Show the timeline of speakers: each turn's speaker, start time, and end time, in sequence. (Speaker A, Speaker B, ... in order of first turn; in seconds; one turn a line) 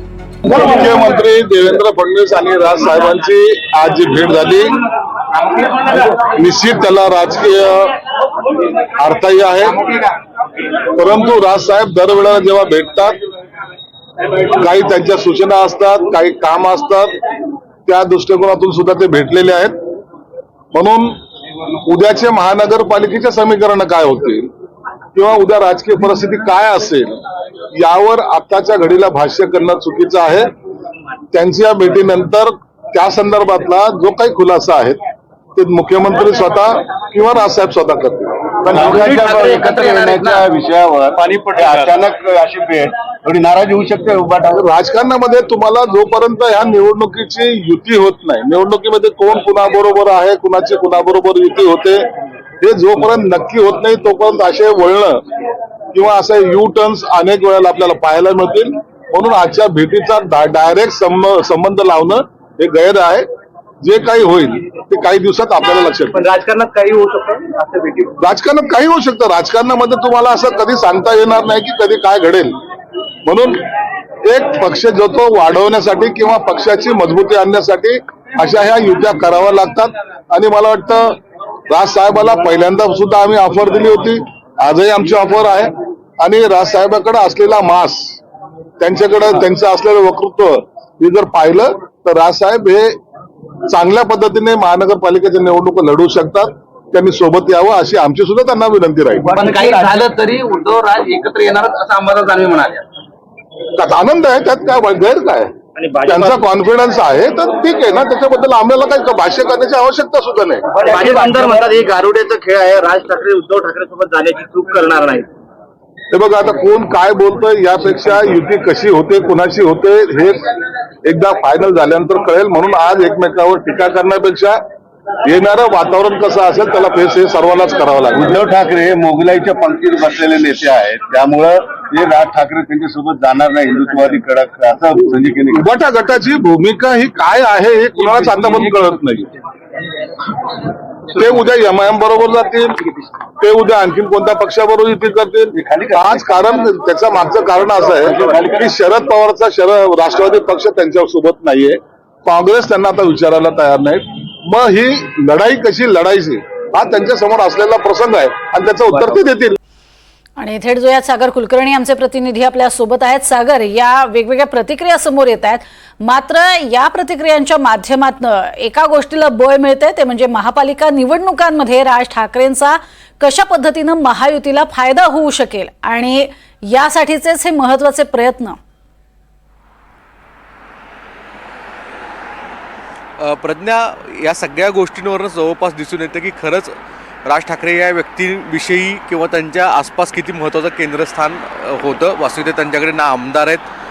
Speaker A: 0.4-4.8
Speaker A: 6.1-7.9
Speaker A: 8.9-9.8
Speaker A: 10.9-13.2
Speaker A: 14.5-17.1
Speaker A: 17.9-19.8
Speaker A: 20.7-21.1
Speaker A: 21.8-24.5
Speaker A: 25.1-27.2
Speaker A: 27.7-30.5
Speaker A: 31.3-35.0
Speaker A: 35.5-38.5
Speaker B: 38.6-44.6
Speaker C: 38.8-40.5
Speaker A: 44.6-52.0
Speaker A: 52.6-55.2
Speaker A: 55.9-63.2
Speaker A: 63.8-66.2
Speaker C: 66.1-68.2
Speaker A: 68.2-72.6
Speaker A: 73.2-73.6
Speaker A: 74.2-88.2
Speaker A: 88.8-93.0
Speaker A: 93.7-99.4
Speaker C: 99.3-102.8
Speaker A: 103.8-105.5
Speaker C: 105.8-106.4
Speaker A: 106.1-110.7
Speaker C: 110.8-115.3
Speaker A: 116.1-120.4
Speaker A: 121.0-124.6
Speaker A: 125.2-128.4
Speaker B: 128.2-135.6
Speaker A: 135.5-139.3
Speaker A: 141.1-142.8
Speaker A: 143.4-159.6
Speaker B: 145.5-146.3
Speaker B: 147.9-148.7
Speaker D: 160.4-178.6
Speaker E: 183.2-186.7
Speaker E: 187.2-193.6